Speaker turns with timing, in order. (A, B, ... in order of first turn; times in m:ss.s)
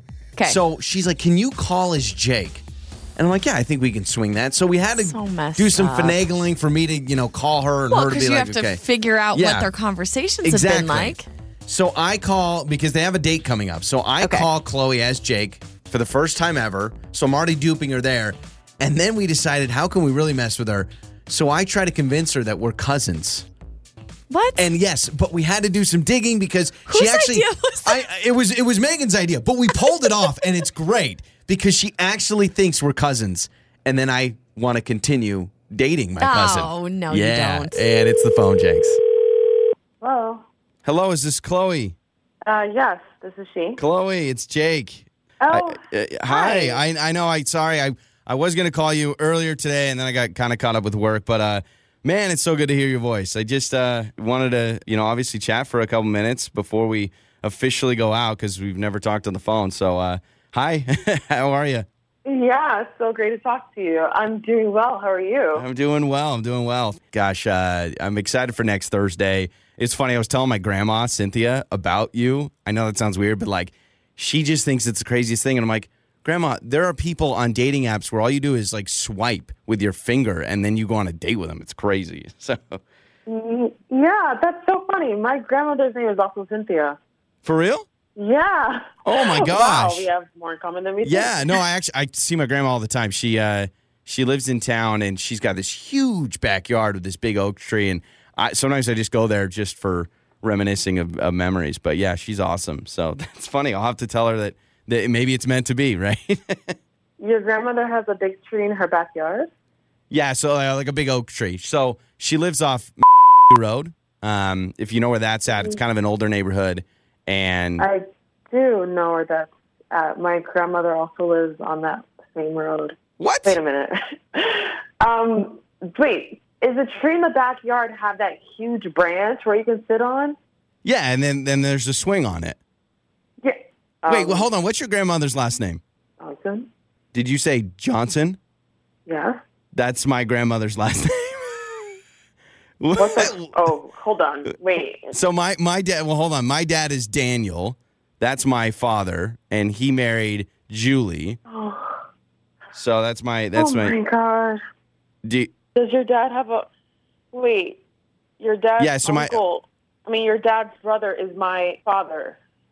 0:00.4-0:02.6 A
0:03.2-0:08.8 A
0:04.9-0:06.2 B
0:07.9-0:11.3 B
0:09.3-0:09.7 A
0:10.4-0:23.5 A
0:14.2-0:14.5 B
0:24.3-0:24.6 B
0:24.6-0:39.0 A
0:26.9-0:28.0 B
0:29.8-0:30.5 B
0:36.2-0:37.8 B
0:40.0-0:40.4 C
0:40.8-0:42.0 A
0:42.4-0:43.8 C
0:43.8-1:01.9 A
0:45.4-0:46.8 C
1:02.2-1:05.6 C
1:05.5-1:22.8 A
1:23.2-1:27.0 C
1:27.4-1:27.8 A
1:28.2-1:31.6 C
1:29.0-1:30.1 A
1:31.0-1:46.7 A
1:47.2-1:49.5 C
1:50.1-1:57.9 A
1:57.8-2:10.4 C
2:03.2-2:03.6 A
2:10.8-2:12.6 A
2:13.4-2:14.5 C
2:14.1-2:15.8 A
2:16.2-2:16.7 C
2:17.1-2:18.4 A
2:19.0-2:19.4 C
2:19.7-2:22.0 A
2:22.8-2:23.7 A
2:23.0-2:25.1 C
2:25.1-2:31.4 A
2:31.5-2:32.0 C
2:32.7-2:34.0 A
2:33.5-2:34.6 C
2:35.2-2:35.5 A
2:35.7-2:36.7 C
2:37.3-2:37.8 C
2:38.4-2:42.4 C
2:38.8-2:39.4 A